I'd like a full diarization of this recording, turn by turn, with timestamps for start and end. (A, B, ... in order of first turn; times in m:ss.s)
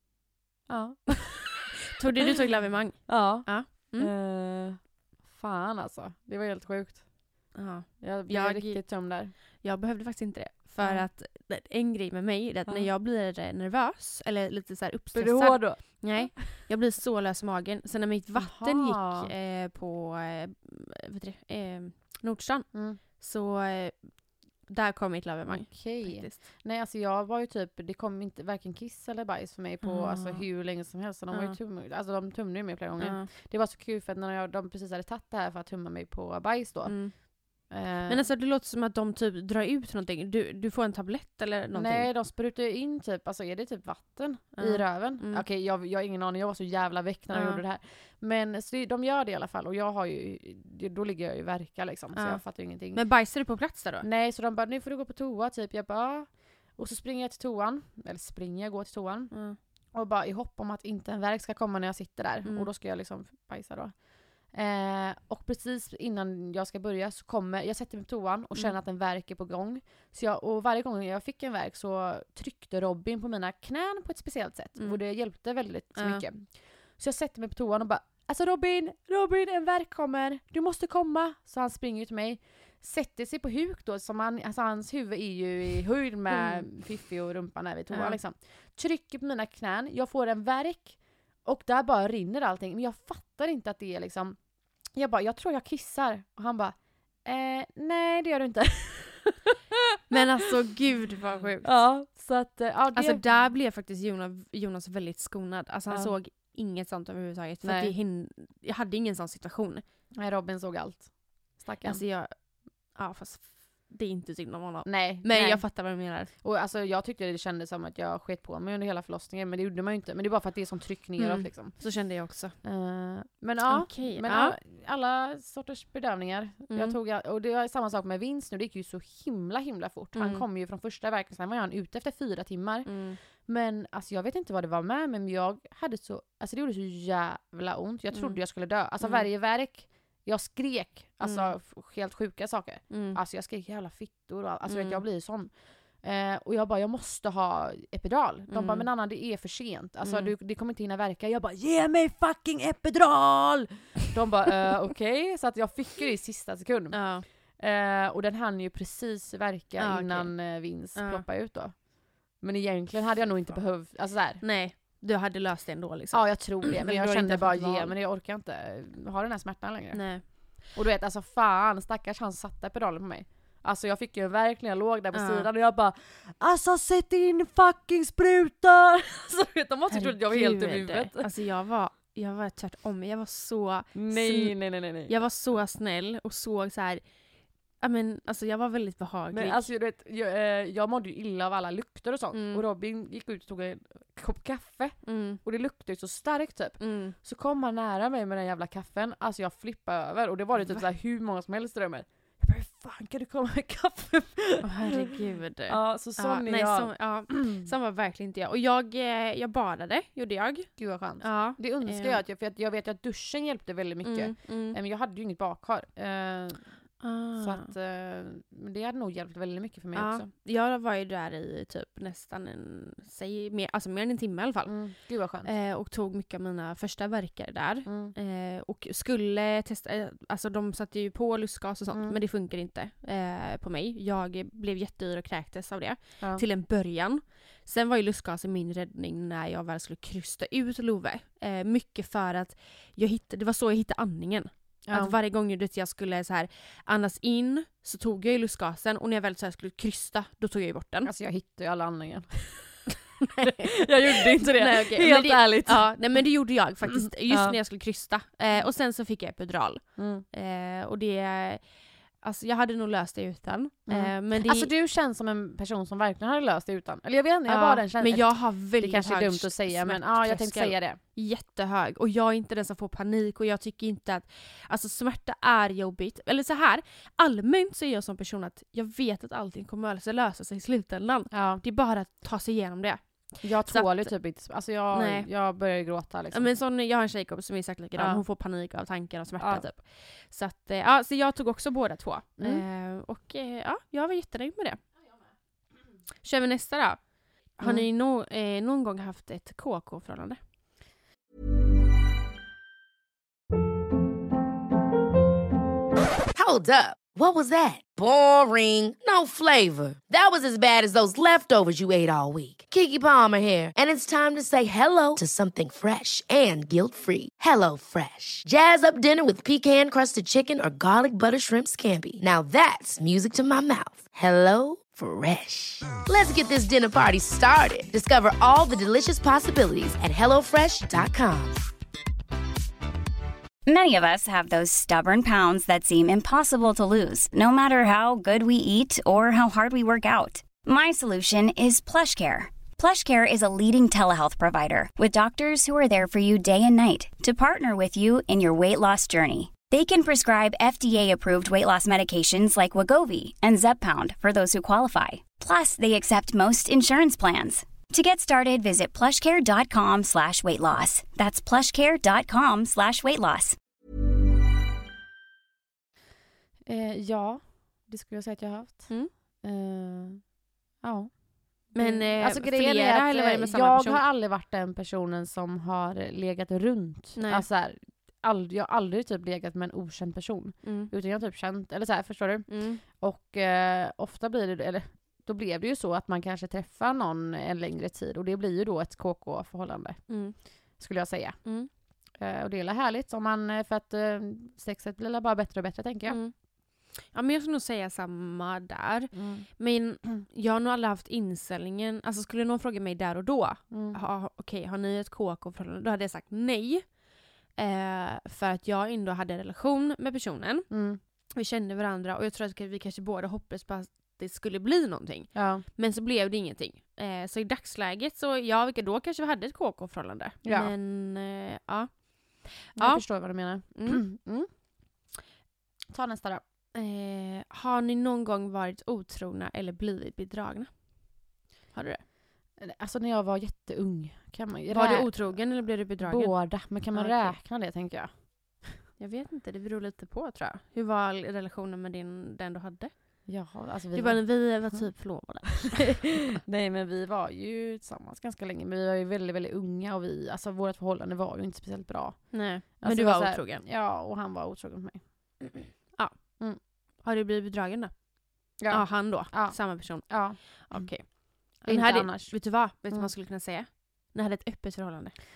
0:00.7-0:01.7 A
0:01.9-0:04.1 B
0:03.1-0:09.3 A
0:07.5-0:26.4 B
0:10.8-0:11.1 A
0:15.1-0:16.6 A
0:18.3-0:19.3 A
0:22.7-0:23.0 A
0:25.5-0:38.3 A
0:29.8-0:31.6 B
0:33.0-0:33.3 B
0:36.8-0:42.1 B
0:41.7-1:39.5 A
0:44.6-0:45.4 B
0:47.3-0:47.6 B
0:52.1-0:54.1 B
0:59.3-0:59.6 B
1:02.4-1:02.7 B
1:14.8-1:15.0 B
1:15.9-1:16.2 B
1:26.3-1:26.7 B
1:27.9-1:28.2 B
1:40.1-1:41.9 B
1:41.6-1:43.3 A
1:42.9-1:49.8 B
1:45.9-1:46.2 A
1:47.6-1:47.9 A
1:50.1-1:52.0 A
1:51.8-1:56.3 B
1:54.8-2:44.5 A
2:01.2-2:02.6 B
2:03.6-2:04.5 B
2:06.7-2:07.0 B
2:10.1-2:10.4 B
2:12.8-2:13.2 B
2:18.1-2:19.3 B
2:21.2-2:21.5 B
2:22.9-2:23.2 B
2:24.7-2:25.0 B
2:28.5-2:28.9 B
2:30.0-2:30.3 B
2:36.9-2:37.2 B
2:39.8-2:41.2 B
2:44.4-2:48.0 B
2:46.1-3:01.3 A
2:49.9-2:50.5 B
2:55.1-2:55.5 B
2:59.9-3:07.1 B
3:03.9-3:05.2 A
3:07.7-3:09.7 B
3:09.3-3:25.0 A
3:12.3-3:12.6 B
3:15.0-3:15.4 B
3:16.8-3:17.2 B
3:20.6-3:20.8 B
3:24.6-3:32.2 B
3:25.7-3:27.7 A
3:30.8-3:40.3 A
3:34.0-3:34.8 B
3:37.0-3:37.7 B
3:39.9-4:11.1 B
3:44.6-3:45.5 A
3:47.8-3:48.1 A
3:51.9-3:52.2 A
3:56.2-3:56.4 A
4:04.8-4:05.1 A
4:11.0-4:12.8 A
4:13.2-4:13.7 B
4:13.4-4:16.2 A
4:14.6-4:24.7 B
4:17.3-4:17.6 A
4:20.0-4:20.2 A
4:23.9-4:31.0 A
4:27.4-4:45.6 B
4:41.3-4:41.6 A
4:43.4-4:46.5 A
4:46.3-4:54.8 B
4:47.9-4:48.2 A
4:49.4-4:49.7 A
4:52.4-4:52.6 A
4:56.2-5:00.4 B
4:57.6-4:57.8 A
5:06.3-5:31.6 C
5:33.6-6:03.6 D
6:06.6-6:36.2 A
6:11.7-6:14.0 B
6:17.2-6:17.4 B
6:20.6-6:20.9 B
6:22.5-6:22.8 B
6:30.1-6:30.8 B
6:31.4-6:31.7 B
6:36.1-7:04.0 B
6:39.1-6:39.5 A
6:43.7-6:44.0 A
6:50.7-6:51.0 A
6:55.3-6:55.6 A
7:00.4-7:00.7 A
7:02.8-7:05.2 A
7:05.9-7:06.4 A
7:06.7-7:12.0 B
7:12.6-7:18.8 A
7:14.7-7:17.4 B
7:19.0-7:26.2 B
7:23.2-7:24.9 A
7:25.4-7:25.8 A
7:26.4-7:35.7 A
7:32.3-7:33.6 B
7:36.0-7:45.1 B
7:38.6-7:43.1 A